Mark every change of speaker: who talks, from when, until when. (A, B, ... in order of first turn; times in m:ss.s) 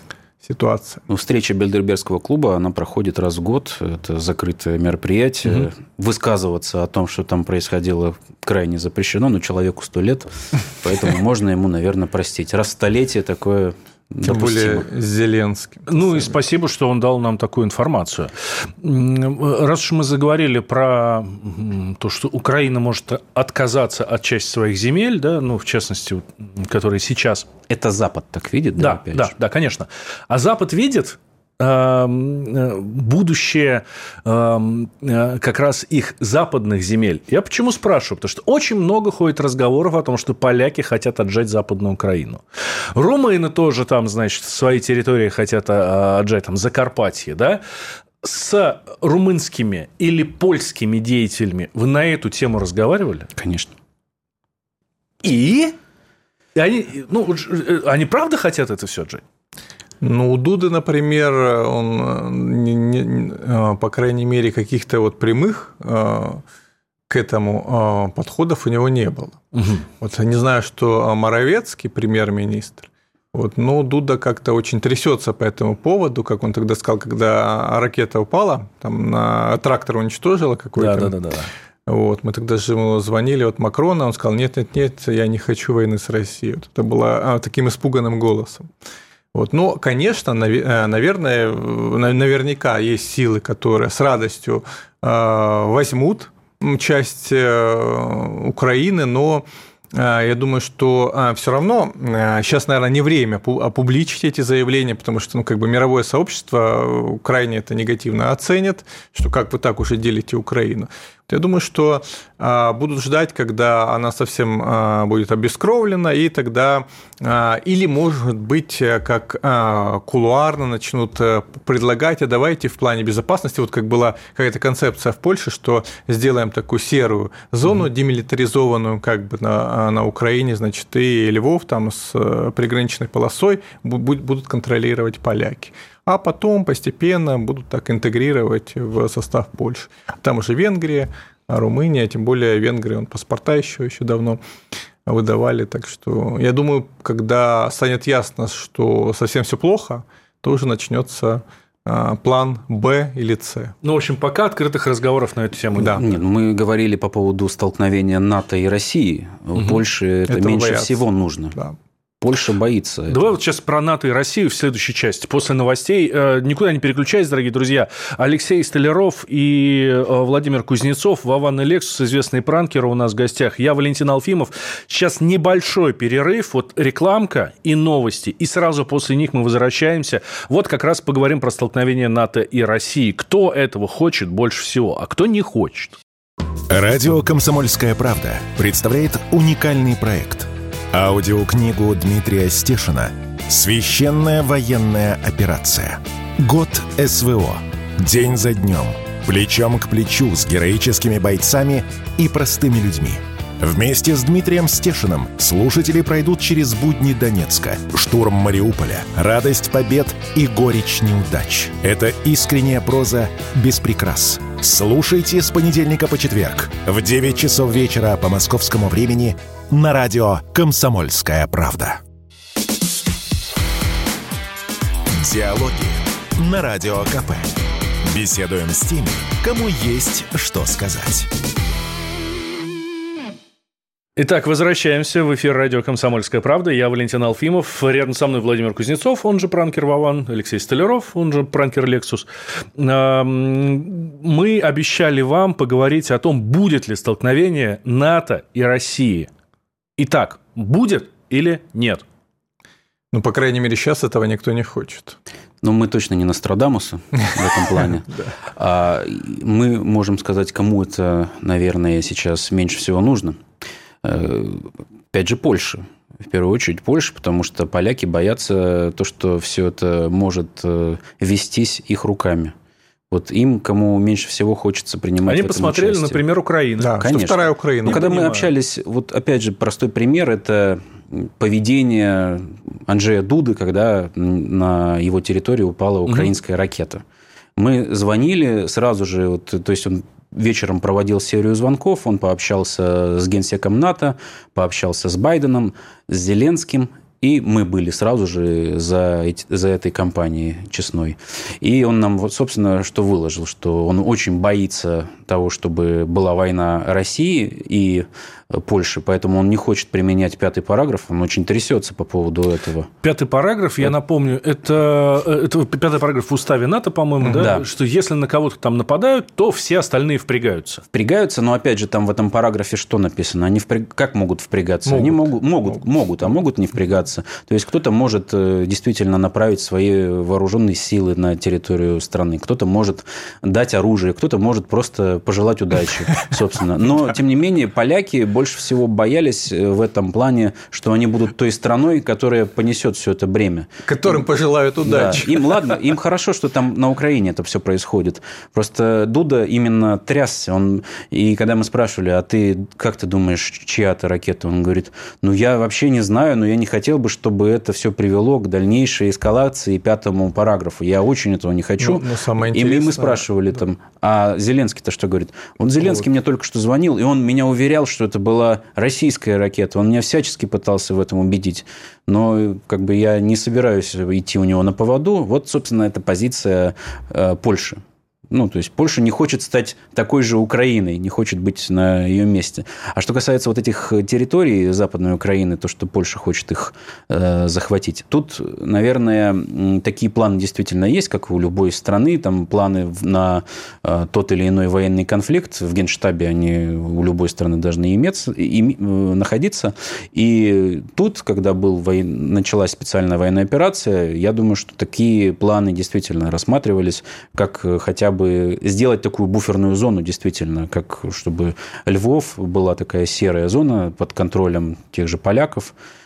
0:00.4-0:01.0 A
0:01.1-0:14.9 B
0:14.2-0:16.4 A
0:15.9-0:27.5 C
0:27.7-0:29.3 B
0:28.8-0:42.4 C
0:42.9-0:47.6 C
0:48.2-0:53.3 C
0:53.4-0:53.7 B
0:55.2-0:55.8 C
0:56.5-0:59.2 C
1:00.0-1:06.4 A
1:07.1-1:09.4 A
1:09.5-1:09.8 C
1:10.0-1:21.1 A
1:20.8-1:21.5 C
1:21.9-1:28.7 A
1:29.3-2:24.4 A
2:25.0-2:33.7 A
2:33.8-2:36.1 C
2:35.7-2:36.0 A
2:36.0-2:41.6 B
2:40.3-2:41.8 A
2:42.2-2:43.3 B
2:43.1-3:06.0 C
3:06.7-3:42.0 D
3:45.1-3:51.3 D
3:54.2-4:09.3 C
4:10.0-4:12.0 C
4:13.1-4:15.2 A
4:15.6-4:23.4 B
4:17.6-4:18.3 A
4:24.0-4:32.5 B
4:33.1-4:36.2 B
4:35.3-4:37.0 C
4:36.8-4:38.0 A
4:37.0-4:47.0 B
4:37.8-4:38.5 C
4:46.0-4:46.3 C
4:47.6-5:12.9 B
5:13.0-5:20.8 C
5:17.2-5:17.5 A
5:17.4-5:17.7 B
5:20.9-5:43.7 B
5:24.9-5:25.9 A
5:43.8-5:45.6 A
5:44.8-6:55.7 B
6:01.8-6:03.3 A